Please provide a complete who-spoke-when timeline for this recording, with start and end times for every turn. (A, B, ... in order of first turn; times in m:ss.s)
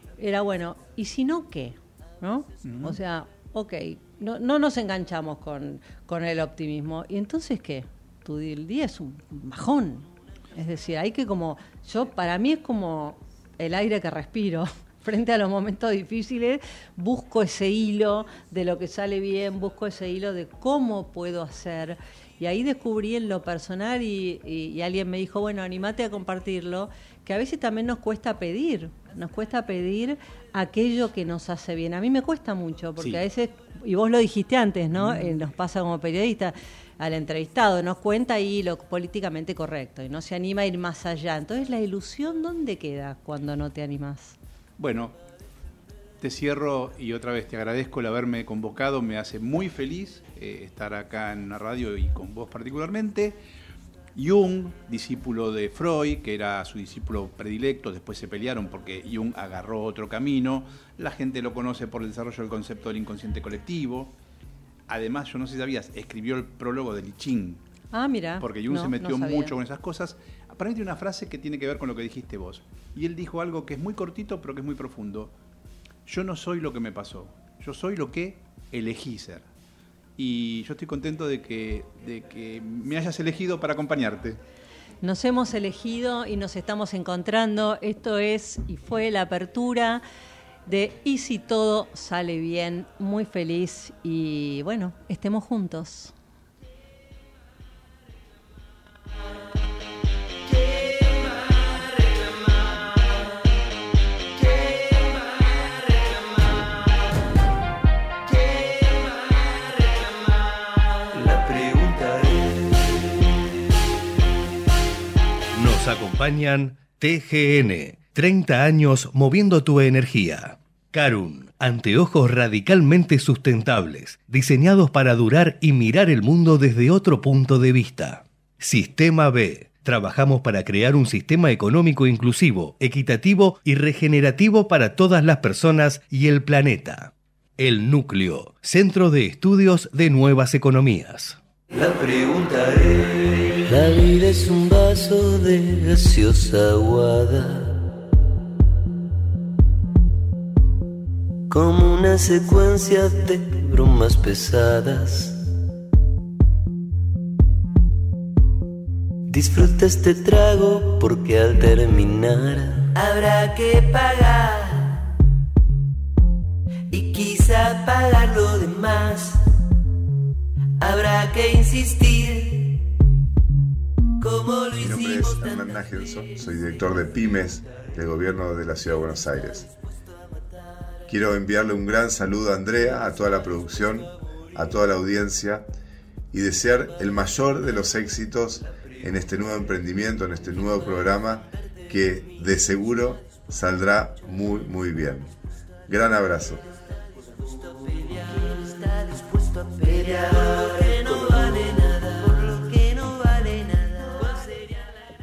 0:00.2-0:44.4 A
0:02.6-0:03.0 B
0:34.9-0:35.4 B
0:44.8-0:45.2 B
0:46.2-0:53.4 B
0:54.1-1:04.1 B
1:04.9-1:07.6 B
1:07.9-1:09.5 A
1:08.4-1:15.3 B
1:16.0-1:19.5 B
1:20.2-1:24.4 B
1:25.0-1:30.0 A
1:30.6-1:36.1 A
1:51.1-1:53.1 C
1:55.5-2:21.4 D
2:21.7-2:27.8 C
2:31.5-2:35.4 C
2:39.3-2:45.0 C
2:46.9-2:49.4 C
2:50.8-2:52.8 C
2:54.2-2:55.8 C
2:54.8-2:59.6 E
3:01.1-3:05.7 E
3:06.3-3:15.3 E
3:15.9-3:16.6 E
3:17.2-3:24.8 C